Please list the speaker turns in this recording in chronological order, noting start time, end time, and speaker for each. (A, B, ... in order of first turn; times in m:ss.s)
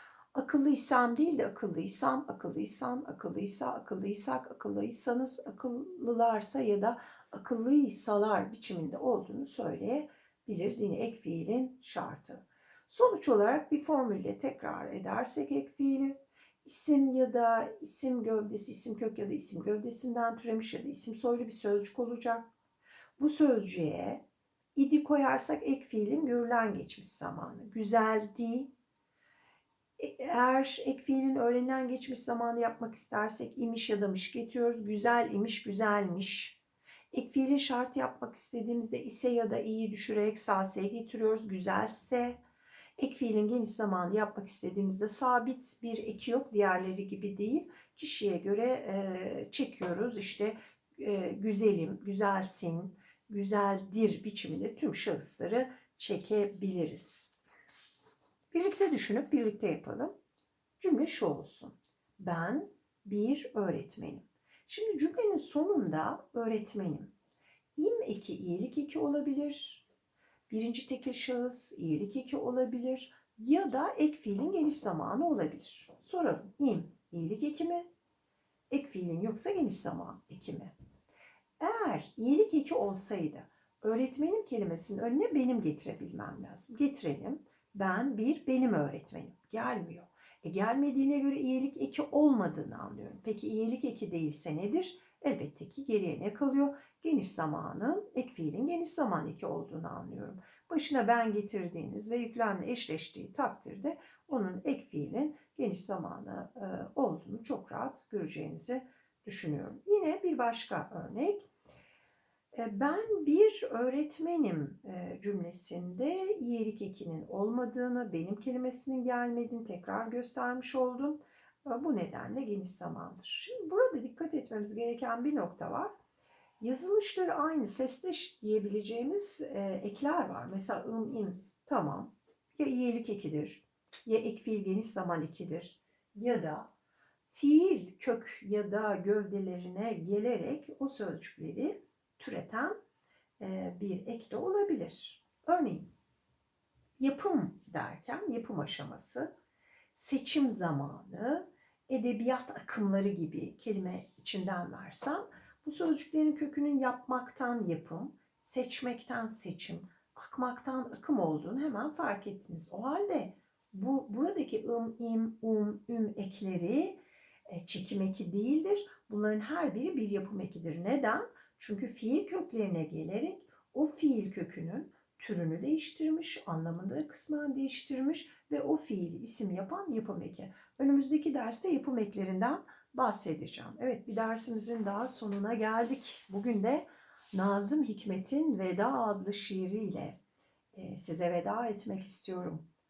0:00.3-0:22.5 A
0:23.2-0:24.2 A
0:24.7-0:28.7 A
0:30.0-0:36.6 A
0:37.1-0:42.4 A
0:43.0-0:57.3 A
0:58.5-1:00.1 A
1:00.8-1:07.1 A
1:07.8-1:09.8 A
1:10.5-1:17.8 A
1:18.7-1:20.7 A
1:21.6-1:51.5 A
1:52.5-2:05.9 A
2:06.6-2:16.7 A
2:17.3-2:22.8 A
2:23.4-2:25.9 A
2:27.0-2:29.3 A
2:29.9-2:47.0 A
2:47.5-3:10.2 A
3:10.7-3:12.6 A